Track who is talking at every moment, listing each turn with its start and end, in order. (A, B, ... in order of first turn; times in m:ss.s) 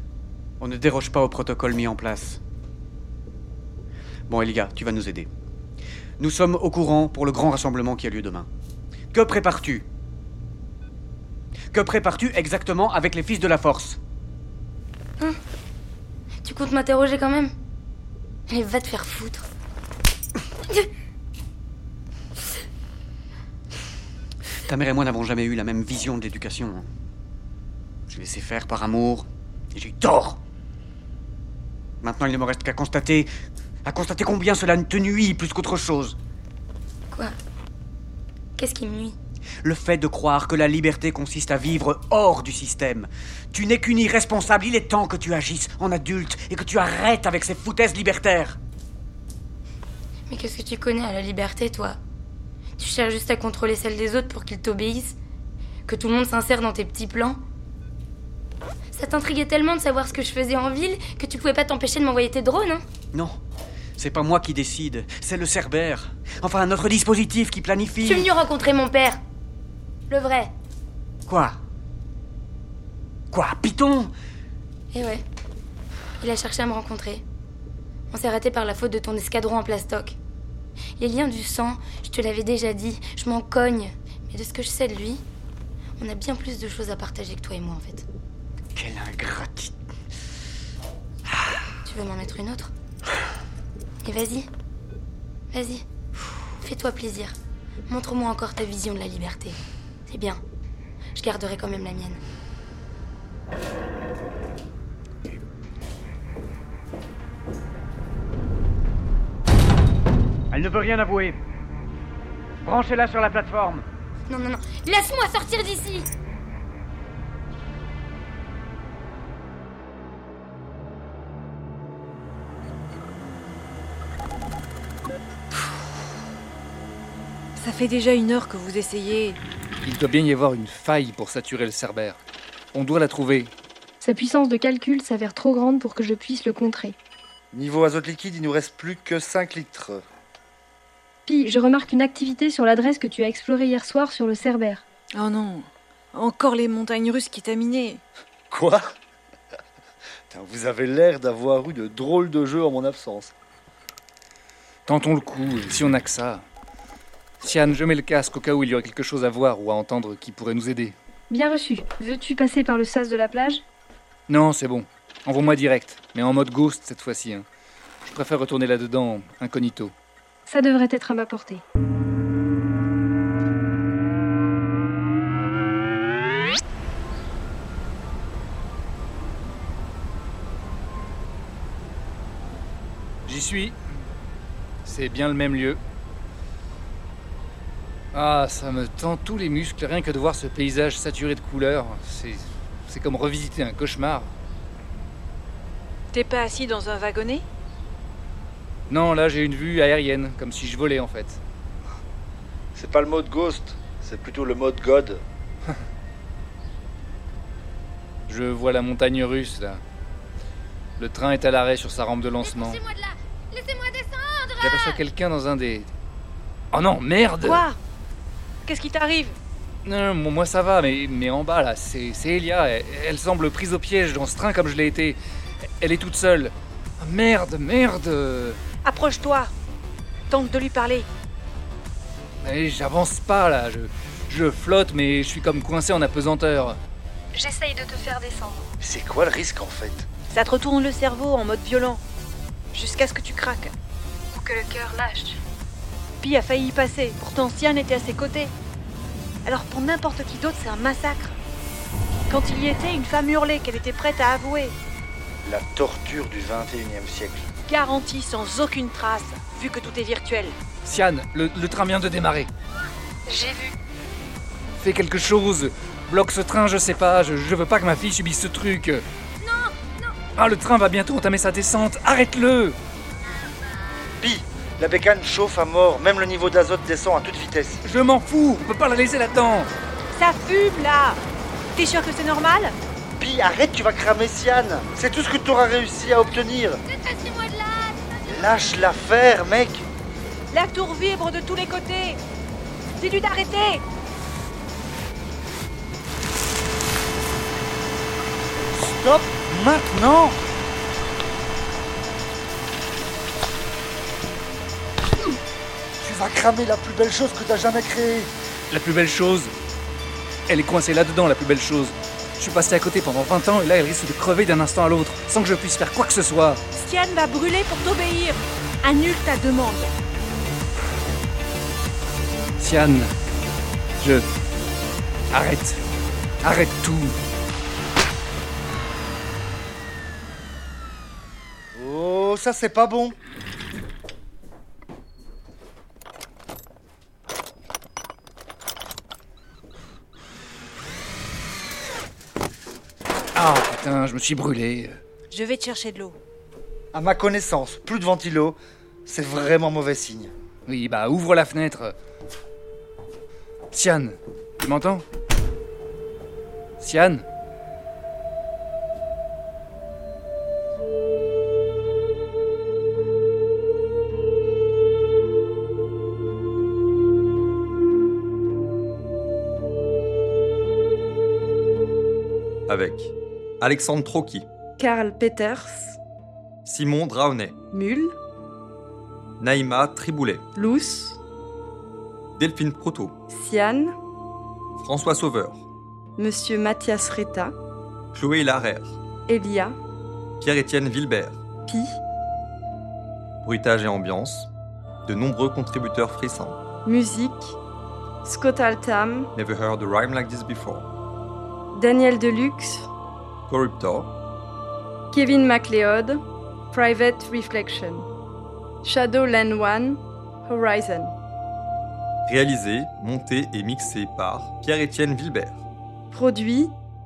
0:00.6-0:02.4 A
0:04.3-0:05.3 A
0:06.2-0:08.5 A
0:09.1-0:09.9 A
0:11.7-0:14.0 A
0:16.4-0:17.5 B
0:18.5-0:19.5 B
0:24.6-0:26.9 A
0:28.1-0:30.4 A
0:32.0-0:33.3 A
0:33.9-0:36.2 A
0:38.6-0:39.2 B
0:39.6-0:48.6 A
0:50.3-0:52.0 B
0:52.8-0:55.2 B
0:55.9-0:57.4 B
0:58.9-1:02.8 B
1:04.0-1:08.3 A
1:08.0-1:09.2 B
1:10.1-1:10.5 B
1:11.3-1:11.6 A
1:13.3-1:14.1 A
1:14.9-1:15.2 B
1:16.2-1:17.2 B
1:18.1-1:20.2 B
1:21.0-1:25.2 B
1:26.0-1:28.1 B
1:28.8-1:29.7 A
1:31.8-1:32.7 B
1:34.0-1:34.5 B
1:35.5-1:35.8 B
1:36.6-1:37.4 B
1:37.9-1:40.4 B
1:41.2-1:42.2 B
1:50.5-1:51.4 A
1:52.7-1:53.8 A
1:54.3-1:56.1 B
2:07.6-2:09.4 C
2:09.8-2:12.2 D
2:12.7-2:13.5 D
2:14.0-2:17.0 E
2:17.5-2:20.0 F
2:21.3-2:24.8 E
2:25.1-2:28.0 C
2:28.5-2:28.8 F
2:30.3-2:33.3 F
2:34.9-2:36.4 D
2:37.4-2:41.0 D
2:41.3-2:43.6 E
2:44.3-2:47.5 D
2:48.1-2:49.9 D
2:50.5-2:51.6 E
3:03.3-3:03.8 D
3:04.8-3:05.8 D
3:08.1-3:14.3 D
3:16.1-3:17.4 C
3:18.9-3:21.4 D
3:22.8-3:25.2 F
3:28.3-3:29.8 D
3:31.0-3:32.8 D
3:32.4-3:35.0 B
3:34.6-3:35.9 D
3:36.7-3:37.7 D
3:37.4-3:37.8 C
3:38.7-3:39.4 C
3:39.8-3:45.2 D
3:45.8-3:48.6 D
3:48.8-3:49.5 C
3:50.3-3:51.1 C
3:52.4-3:56.8 D
3:57.3-3:58.6 E
3:58.8-4:00.1 F
4:00.3-4:02.0 C
4:02.7-4:03.7 C
4:04.4-4:05.4 E
4:06.2-4:08.5 C
4:09.4-4:11.4 C
4:12.3-4:14.8 C
4:15.4-4:17.5 F
4:17.7-4:20.6 C
4:20.8-4:22.5 D
4:23.3-4:23.7 C
4:24.8-4:29.0 D
4:29.4-4:30.1 B
4:30.4-4:32.8 D
4:34.2-4:37.8 F
4:37.8-4:39.7 D
4:40.1-4:41.2 C
4:41.8-4:42.8 C
4:43.2-4:46.8 F
4:46.9-4:48.2 B
4:48.3-4:49.9 F
4:50.5-4:52.2 C
4:53.0-4:53.8 C
4:58.7-5:00.4 F
5:06.0-5:08.3 F
5:08.7-5:09.5 D
5:10.5-5:16.6 D
5:16.8-5:19.9 C
5:22.6-5:23.1 D
5:25.3-5:25.8 D
5:26.4-5:27.2 D
5:31.8-5:33.2 F
5:43.4-5:45.0 D
5:45.3-5:46.2 C
5:46.9-5:50.3 F
5:50.7-5:51.9 D
5:53.7-5:55.0 D
5:56.8-5:57.2 D
6:12.7-6:14.5 G
6:14.8-6:16.0 H
6:16.6-6:17.6 G
6:17.7-6:18.2 H
6:19.4-6:20.5 G
6:20.6-6:21.2 H
6:22.4-6:23.2 G
6:23.3-6:24.0 H
6:24.8-6:25.7 G
6:26.2-6:27.5 H
6:28.1-6:29.0 G
6:29.3-6:29.8 H
6:30.4-6:31.4 G
6:31.7-6:32.0 H
6:33.4-6:34.5 G
6:35.0-6:36.6 G
6:36.9-6:37.6 H
6:38.2-6:39.3 H
6:39.4-6:40.9 G
6:41.7-6:42.9 H
6:43.5-6:44.2 G
6:45.1-6:48.1 H
6:48.8-6:51.1 H
6:52.3-6:55.6 G
6:56.1-6:56.7 H